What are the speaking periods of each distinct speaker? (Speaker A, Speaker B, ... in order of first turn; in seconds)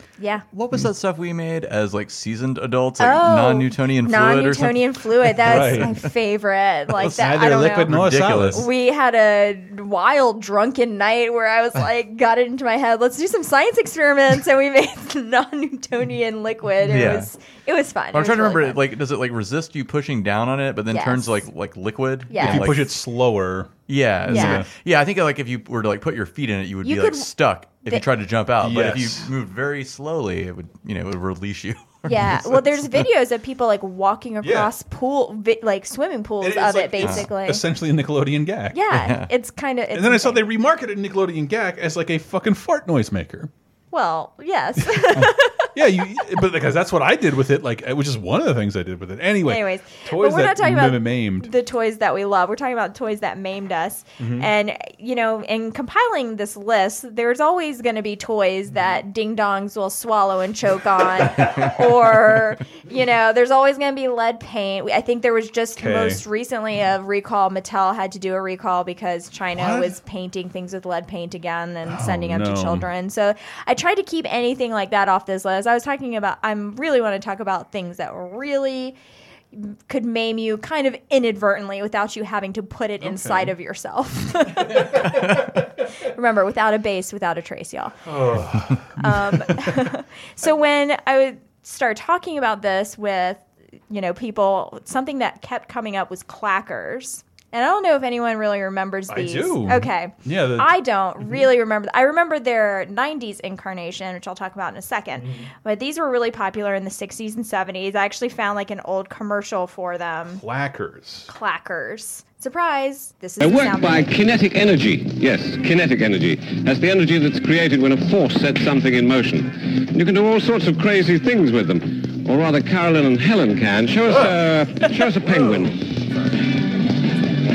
Speaker A: 0.2-0.4, 3.0-7.9, 8.5-18.8, 20.9-21.4, 22.3-22.7, 24.3-24.6, 26.8-27.3, 32.1-37.6, 38.7-40.4, 43.9-45.7, 49.5-79.0, 79.5-88.1, 89.0-110.4, 111.3-114.1
Speaker B: 0.5-6.0, 6.9-8.7, 16.8-17.3, 18.1-22.9, 23.9-32.4, 37.0-37.3, 38.9-39.3
Speaker C: 5.4-5.9, 7.0-8.6, 22.4-23.7, 24.2-24.7, 28.6-29.3, 32.0-32.6, 34.4-34.7, 36.4-38.8, 39.9-43.5, 44.8-51.5, 54.2-54.5, 58.7-59.0, 65.8-66.2, 69.5-70.0, 71.8-72.9, 83.0-83.5, 84.8-85.1, 88.0-89.7, 99.1-100.7, 105.2-105.5, 110.3-111.3, 124.1-124.4, 125.2-125.6
Speaker D: 113.4-125.9